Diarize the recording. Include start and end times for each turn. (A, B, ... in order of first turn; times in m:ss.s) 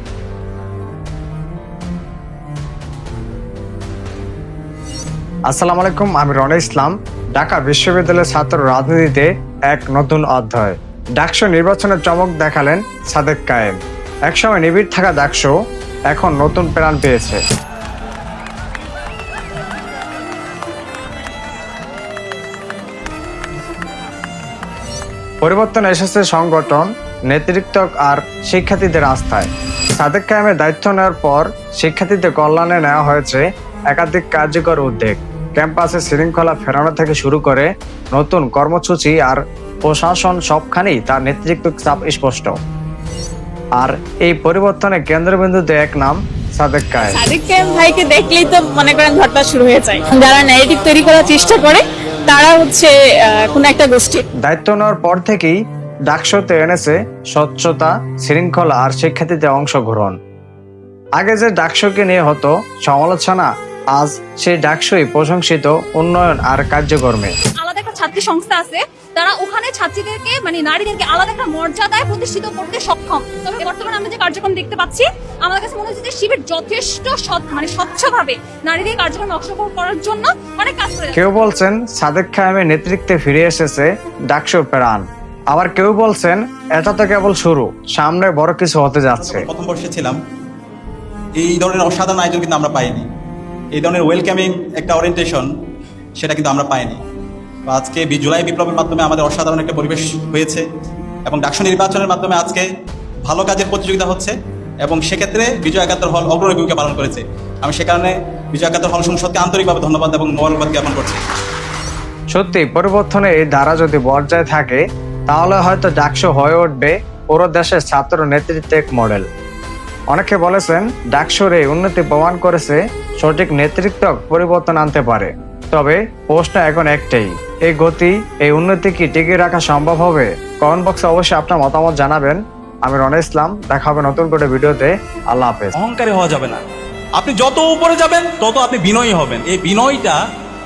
0:05.5-0:15.5 A
0:16.1-0:17.4 A
0:25.4-0:42.6 A
0:43.8-0:47.2 A
0:47.1-0:54.2 B
0:54.4-0:55.6 A
0:56.1-1:00.2 A
1:01.2-1:07.3 A
1:07.6-1:21.2 C
1:21.1-1:29.5 A
1:29.2-1:30.2 D
1:31.4-1:33.0 D
1:33.8-1:35.5 D
1:36.2-1:37.0 D
1:37.7-1:40.6 D
1:41.3-1:42.7 D
1:43.2-1:51.2 D
1:52.3-1:59.3 A
2:00.1-2:15.8 A
2:15.8-2:16.6 D
2:17.2-2:20.2 D